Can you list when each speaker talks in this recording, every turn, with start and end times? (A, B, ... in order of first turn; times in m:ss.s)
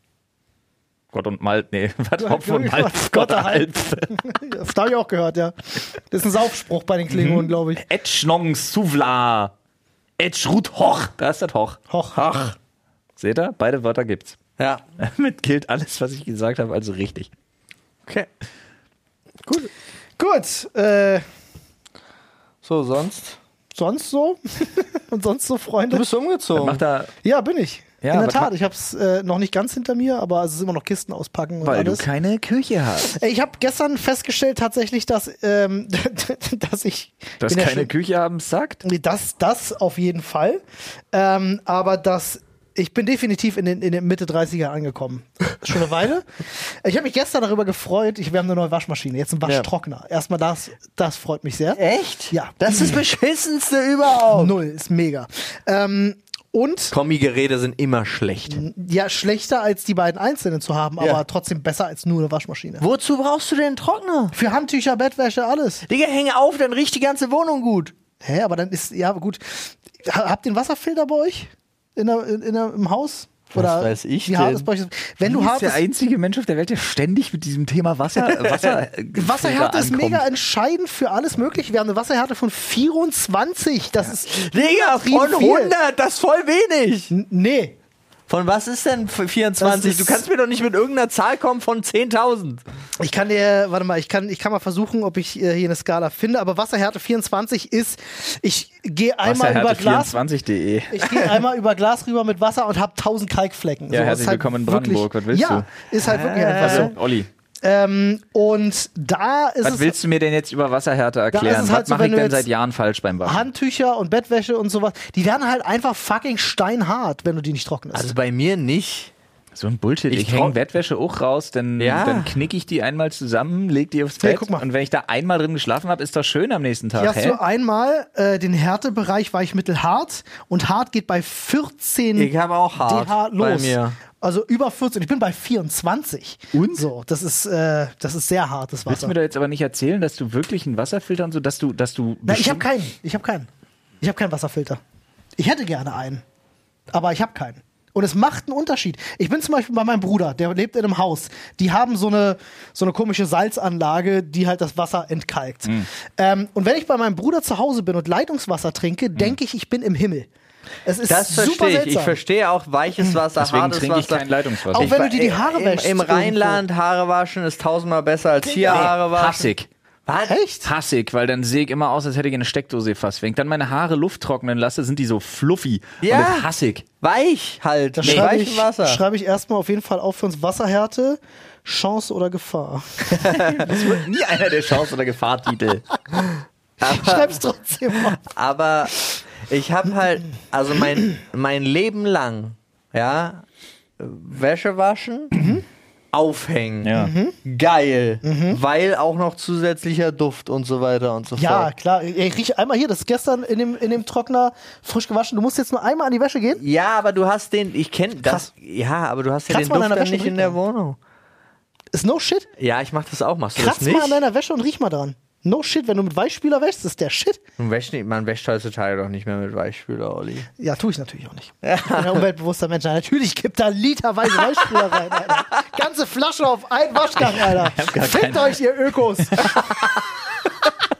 0:01.1-0:04.1 A
0:02.2-0:07.8 B
0:07.1-0:09.5 A
0:10.2-0:11.8 A
0:11.9-0:12.2 B
0:12.1-0:12.6 C
0:13.2-0:14.4 A
0:15.0-0:17.3 A
0:19.4-0:19.7 C
0:20.2-0:21.2 B
0:22.6-0:23.4 C
0:23.7-0:26.0 B
0:25.9-0:26.8 C
0:26.5-0:27.1 A
0:27.2-0:32.0 B
0:28.0-0:28.5 A
0:31.6-0:33.2 A
0:33.0-0:37.9 B
0:37.4-0:38.8 A
0:38.8-0:53.0 B
0:51.8-0:54.5 C
0:54.3-0:56.9 B
0:56.9-0:58.6 C
0:58.5-1:02.8 B
1:02.8-1:04.3 C
1:04.3-1:05.8 B
1:05.9-1:07.9 C
1:08.2-1:15.8 B
1:13.5-1:14.7 C
1:15.2-1:20.2 A
1:18.2-1:18.8 C
1:19.1-1:25.7 B
1:24.1-1:27.1 C
1:27.1-1:27.7 B
1:28.3-1:32.6 C
1:29.6-1:30.2 B
1:33.0-1:40.2 B
1:39.2-1:41.1 A
1:40.9-1:46.9 B
1:43.9-1:45.7 A
1:46.0-1:46.9 C
1:46.6-1:47.3 A
1:47.6-1:49.9 B
1:49.6-1:53.5 A
1:51.3-1:52.4 B
1:53.2-1:58.1 B
1:57.9-1:59.1 C
1:59.5-2:07.4 A
2:00.1-2:00.6 C
2:01.8-2:02.4 C
2:04.2-2:04.6 B
2:07.0-2:19.1 B
2:12.2-2:14.0 C
2:16.5-2:16.8 A
2:18.9-2:22.6 A
2:22.2-2:23.5 B
2:24.0-2:24.8 B
2:25.4-2:26.2 B
2:26.9-2:40.3 B
2:40.8-2:42.2 B
2:41.1-2:49.5 C
2:43.4-2:44.9 A
2:44.8-2:46.6 B
2:48.4-2:48.9 B
2:48.7-2:49.7 A
2:50.1-2:50.4 C
2:50.3-2:50.7 B
2:50.6-2:56.8 A
2:56.0-2:56.5 C
2:57.0-2:59.0 C
2:58.0-3:03.8 B
2:58.0-2:58.3 A
3:03.2-3:03.6 C
3:03.5-3:05.8 A
3:06.8-3:13.4 C
3:06.8-3:08.2 B
3:14.0-3:15.3 C
3:15.3-3:15.6 B
3:16.1-3:21.7 C
3:16.8-3:17.1 A
3:16.9-3:17.4 B
3:18.2-3:18.6 B
3:21.4-3:26.6 B
3:26.6-3:31.0 C
3:29.5-3:30.5 B
3:31.9-3:32.5 B
3:32.6-3:34.2 C
3:33.6-3:37.4 B
3:37.6-3:40.5 C
3:40.6-3:49.8 B
3:41.6-3:42.2 C
3:44.6-3:45.3 C
3:47.2-3:48.6 A
3:49.2-3:49.7 A